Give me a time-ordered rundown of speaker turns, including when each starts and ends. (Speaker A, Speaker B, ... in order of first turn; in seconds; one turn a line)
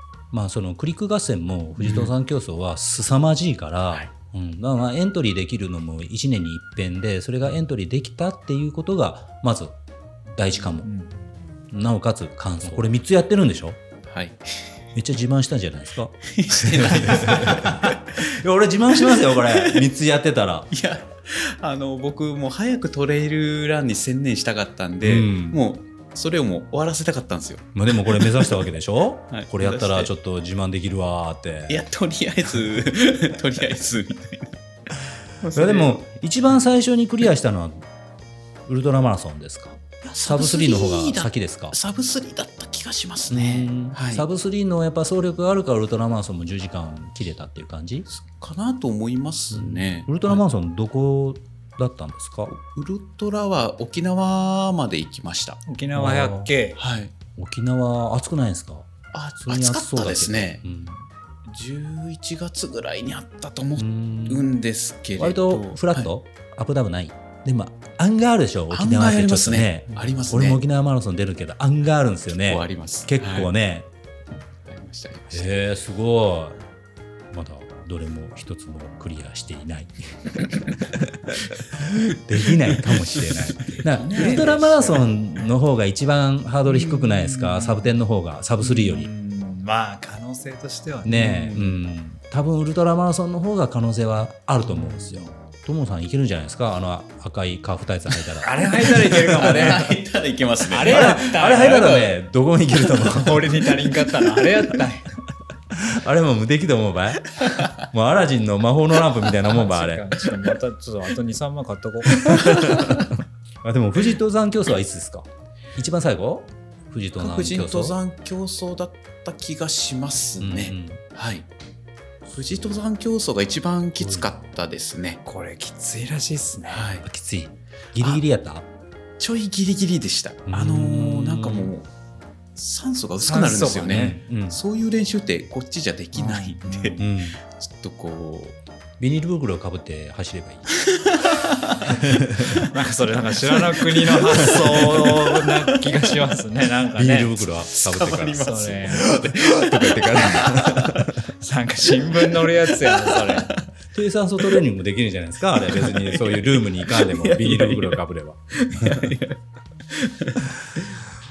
Speaker A: 0.3-9.8
Speaker B: 1.8-2.1
Speaker A: 10.3-10.9
Speaker C: 10.8-11.2
Speaker A: 11.7-13.8
Speaker B: 14.1-14.6
Speaker A: 14.9-20.7
Speaker B: 16.2-18.2
Speaker B: 19.0-19.9
Speaker B: 20.7-28.6
Speaker A: 25.0-25.6
Speaker A: 27.7-31.8
Speaker B: 29.3-30.1
Speaker B: 31.7-34.6
Speaker B: 35.4-36.0
Speaker A: 35.5-37.8
Speaker A: 38.7-41.8
Speaker B: 40.0-44.3
Speaker A: 43.3-48.1
Speaker B: 48.1-50.4
Speaker A: 49.5-52.5
Speaker B: 52.5-55.6
Speaker C: 55.7-56.8
Speaker A: 55.9-56.5
Speaker B: 56.8-57.1
Speaker A: 57.4-58.9
Speaker B: 59.1-60.6
Speaker A: 59.4-61.1
Speaker B: 61.5-66.1
Speaker A: 63.8-64.5
Speaker A: 65.2-73.9
Speaker B: 68.7-70.6
Speaker B: 72.4-73.5
Speaker B: 74.7-75.5
Speaker A: 75.3-76.6
Speaker A: 77.3-89.1
Speaker B: 83.1-85.0
Speaker C: 83.9-85.0
Speaker B: 86.7-87.8
Speaker C: 88.6-91.7
Speaker A: 91.0-99.7
Speaker B: 91.5-91.7
Speaker C: 94.7-95.3
Speaker C: 98.4-100.0
Speaker B: 99.0-102.1
Speaker C: 100.7-102.1
Speaker A: 100.9-103.6
Speaker C: 103.0-105.1
Speaker A: 105.7-110.2
Speaker B: 107.4-107.8
Speaker C: 109.4-113.0
Speaker A: 112.2-118.0
Speaker B: 112.3-113.1
Speaker B: 117.2-121.5
Speaker A: 120.4-121.0
Speaker B: 122.3-125.2
Speaker A: 124.0-124.3
Speaker C: 125.2-126.9
Speaker B: 126.7-127.1
Speaker A: 127.0-128.7
Speaker B: 128.0-128.2
Speaker B: 129.2-131.9
Speaker A: 130.5-131.7
Speaker B: 132.6-138.6
Speaker C: 133.2-134.2
Speaker A: 133.9-134.6
Speaker C: 136.2-137.1
Speaker A: 137.0-137.4
Speaker A: 139.0-140.8
Speaker B: 140.8-142.1
Speaker A: 141.9-142.6
Speaker C: 142.6-147.4
Speaker B: 143.5-146.2
Speaker A: 144.3-145.5
Speaker A: 146.9-148.4
Speaker B: 147.7-150.9
Speaker C: 148.4-149.4
Speaker A: 149.3-151.1
Speaker C: 150.4-150.9
Speaker C: 151.4-153.5
Speaker B: 151.9-153.7
Speaker A: 153.9-159.2
Speaker B: 155.7-158.0
Speaker B: 158.6-159.4
Speaker B: 159.9-161.0